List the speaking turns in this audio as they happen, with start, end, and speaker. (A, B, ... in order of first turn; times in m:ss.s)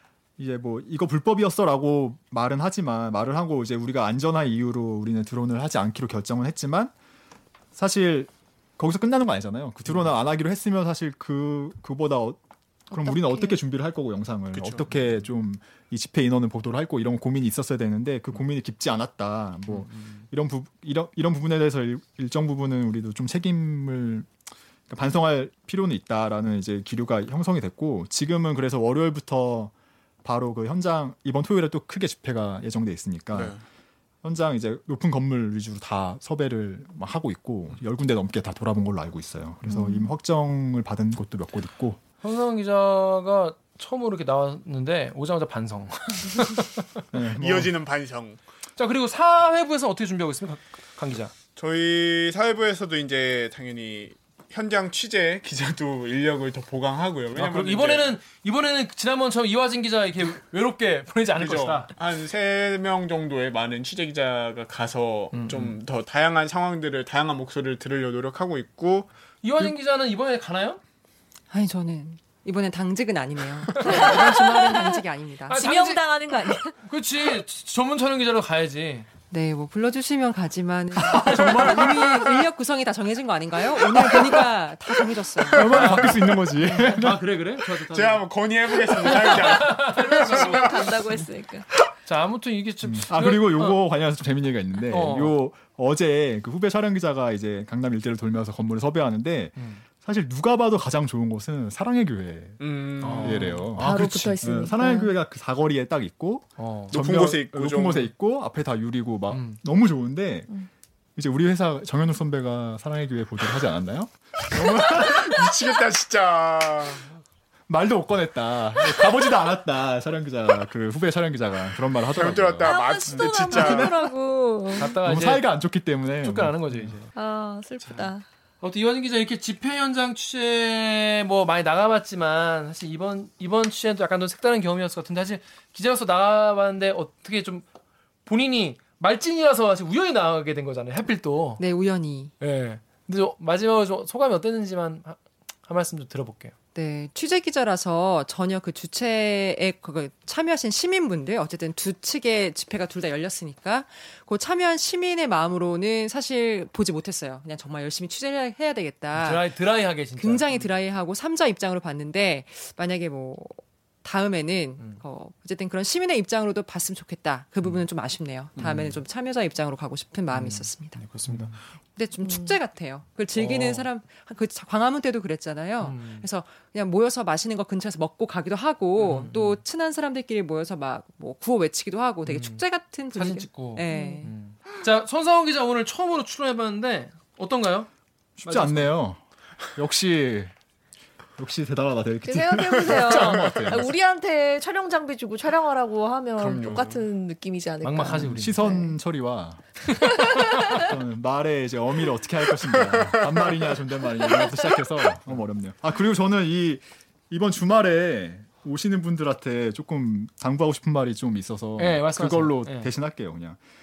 0:00.4-0:06.9 A
0:07.7-0:24.3 A
0:12.9-0:13.6 B
0:19.7-0:20.2 C
0:24.9-0:29.7 A
0:30.2-0:33.6 A
0:33.3-0:33.6 D
0:34.2-0:42.0 A
0:39.7-0:40.1 B
0:42.2-0:46.9 C
0:47.1-0:47.7 A
0:47.4-0:48.4 D
0:48.8-0:51.3 C
0:51.6-0:58.2 D
0:57.3-1:01.9 C
1:01.3-1:09.1 D
1:05.3-1:05.8 C
1:09.4-1:10.8 C
1:11.5-1:15.6 E
1:13.8-1:16.8 B
1:15.5-1:19.1 C
1:19.3-1:25.8 E
1:21.2-1:21.7 A
1:21.3-1:21.8 C
1:21.5-1:22.1 D
1:25.5-1:27.2 A
1:25.7-1:28.4 C
1:25.7-1:26.2 D
1:27.8-1:30.8 D
1:29.0-1:31.2 C
1:29.0-1:31.7 B
1:32.0-1:33.8 C
1:32.8-1:50.5 A
1:34.9-1:35.4 C
1:39.6-1:39.8 C
1:42.6-1:43.6 D
1:43.0-1:44.1 C
1:43.8-1:45.1 B
1:46.6-1:46.9 C
1:46.9-1:48.1 D
1:49.3-1:49.6 C
1:51.2-1:55.6 A
1:54.6-1:57.1 D
1:57.7-2:04.0 A
2:02.1-2:04.1 D
2:02.6-2:05.0 B
2:04.7-2:05.4 C
2:05.0-2:06.9 A
2:06.2-2:07.1 C
2:07.1-2:08.2 B
2:08.6-2:17.6 C
2:18.2-2:21.6 C
2:21.6-2:22.3 E
2:22.4-2:26.5 C
2:26.7-2:39.5 E
2:39.1-2:40.7 C
2:40.1-2:51.0 E
2:48.6-2:49.0 C
2:50.3-2:51.6 C
2:51.9-3:04.3 E
2:52.2-2:52.5 B
2:53.3-2:53.9 C
2:55.8-2:56.2 C
2:59.0-2:59.6 C
3:02.3-3:07.9 C
3:03.9-3:04.2 B
3:08.4-3:10.5 A
3:08.4-3:08.9 C
3:11.4-3:13.9 A
3:12.2-3:18.9 B
3:16.4-3:17.0 D
3:17.8-3:18.6 C
3:18.2-3:19.8 A
3:19.9-3:20.9 B
3:20.7-3:33.6 A
3:31.8-3:32.9 C